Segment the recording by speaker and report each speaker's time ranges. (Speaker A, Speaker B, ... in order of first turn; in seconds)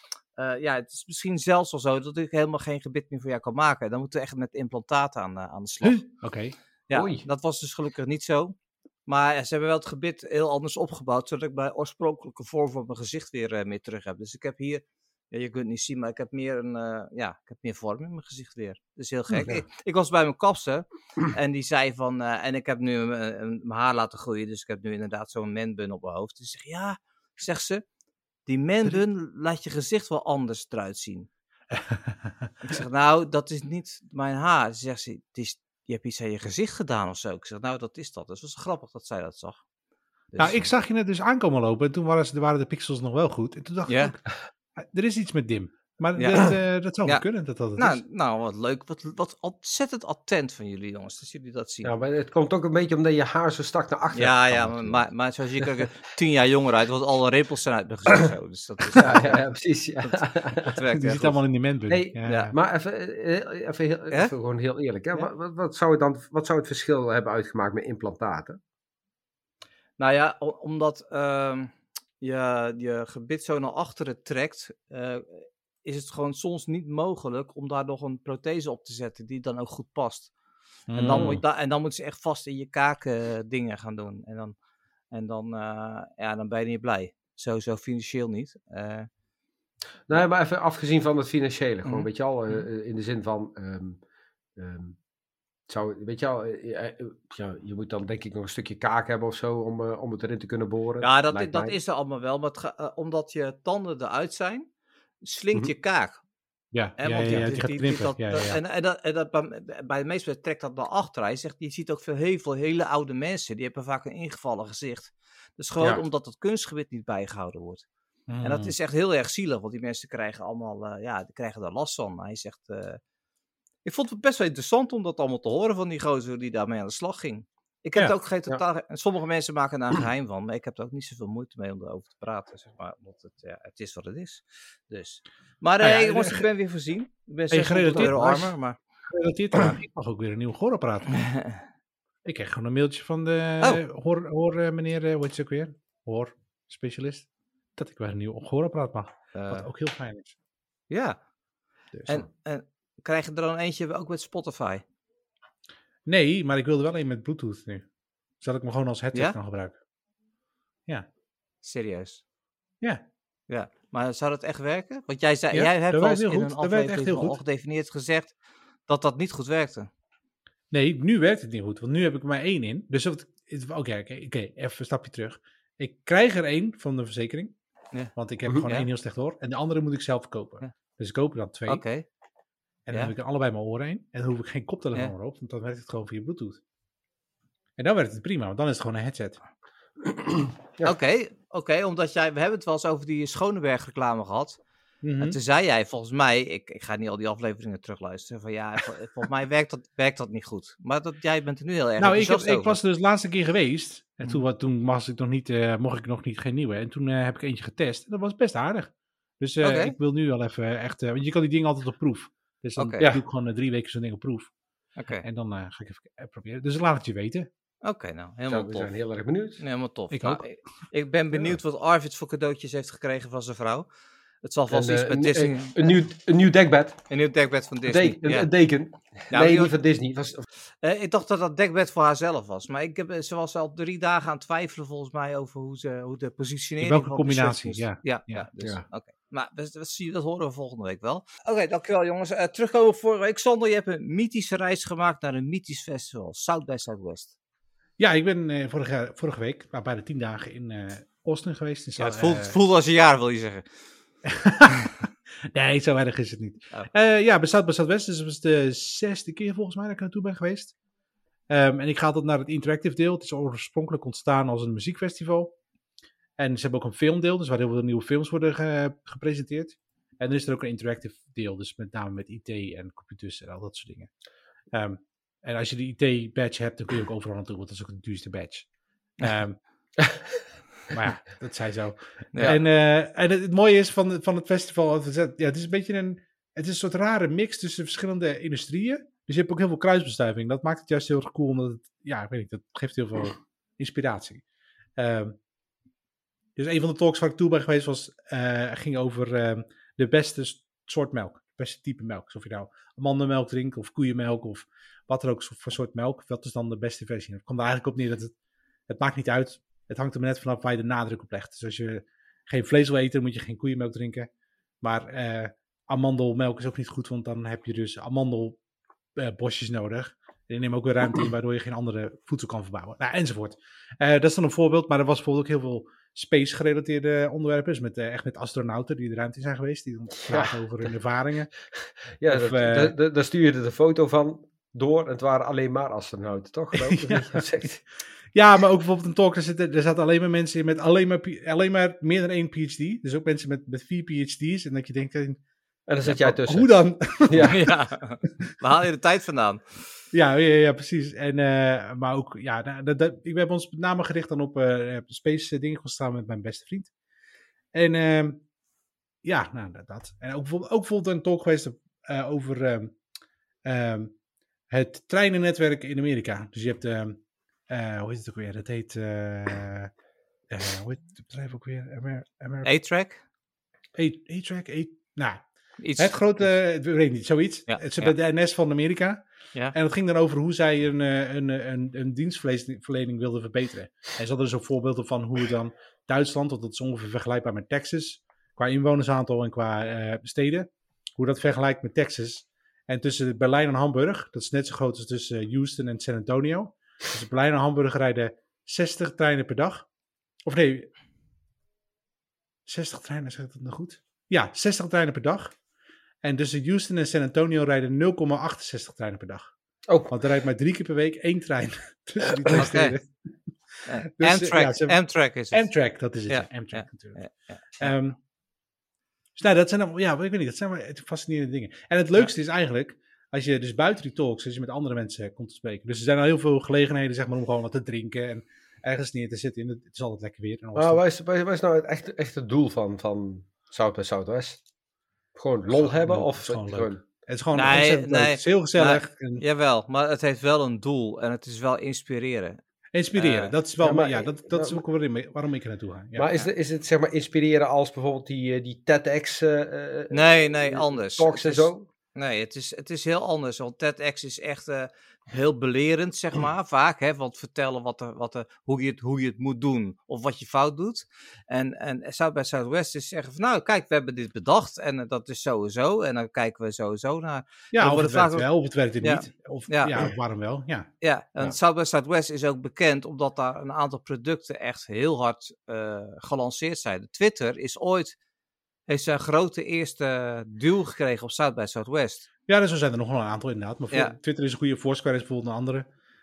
Speaker A: 0.3-6.0, 6.9-8.5, 9.1-27.8, 28.4-31.3, 32.6-39.6, 40.3-40.7, 43.9-44.1, 46.1-46.5, 47.0-51.9, 54.1-59.4, 60.0-61.4, 62.2-62.5, 70.0-80.3, 80.9-84.5, 85.1-89.1, 101.0-104.7, 105.2-106.2, 107.0-117.8, 118.4-123.0, 123.8-138.8, 141.2-141.6, 149.3-149.6, 150.9-151.2, 152.1-154.8, 161.6-162.2, 163.5-168.3, 168.9-169.9, 181.7-182.0, 190.8-194.6, 195.2-202.8, 209.6-209.9, 212.8-213.1, 215.0-215.2, 217.8-218.9, 219.6-223.9, 224.4-225.9, 227.1-228.5, 229.3-229.7, 230.8-247.3, 252.0-253.7, 282.3-282.6, 347.4-349.8, 372.6-373.2, 375.8-376.2, 377.7-378.1, 412.5-412.9, 413.9-415.7, 416.3-417.9, 437.5-442.6, 443.1-443.5, 450.1-468.5, 469.0-470.0, 471.0-478.1, 478.9-482.3
Speaker B: 5.8-6.5, 31.7-32.5, 40.4-48.0, 61.0-62.5, 80.9-81.4, 106.7-108.6, 118.3-118.7, 135.8-136.5, 137.5-138.6, 139.1-141.2, 142.2-150.3, 151.9-152.2, 156.1-157.8, 158.4-159.8, 165.5-167.4, 170.7-177.5, 178.1-181.8, 182.8-186.6, 187.8-189.4, 195.0-195.4, 202.0-214.5, 215.2-217.5, 220.1-220.4, 236.8-238.5, 248.0-252.6, 254.2-260.7, 261.5-265.5, 266.4-274.1, 274.7-278.7, 279.2-279.6, 280.9-294.4, 295.0-295.4, 296.6-308.3, 308.9-314.3, 314.8-318.6, 319.1-331.5, 332.3-332.9, 336.7-337.4, 338.3-345.4, 346.0-347.7, 350.1-356.9, 357.7-358.4, 359.2-362.9, 363.6-364.1, 364.7-369.9, 370.5-372.7, 373.9-375.4, 376.0-399.9, 400.4-400.9, 402.6-405.6, 406.2-409.5, 410.1-413.1, 413.7-415.0, 415.5-417.2, 417.8-418.2, 419.4-431.0, 435.7-439.4, 442.9-446.3, 467.7-470.9, 482.5-485.9
Speaker C: 6.9-7.2, 51.8-55.1, 59.0-60.7, 61.9-68.6, 90.1-94.0, 94.6-95.0, 95.7-101.8, 190.1-190.9, 218.5-219.6, 224.7-227.1, 227.9-230.4, 330.2-330.8, 332.2-337.8, 345.9-347.6, 409.9-410.1, 430.7-434.6, 435.3-437.0, 443.8-444.8, 446.1-451.9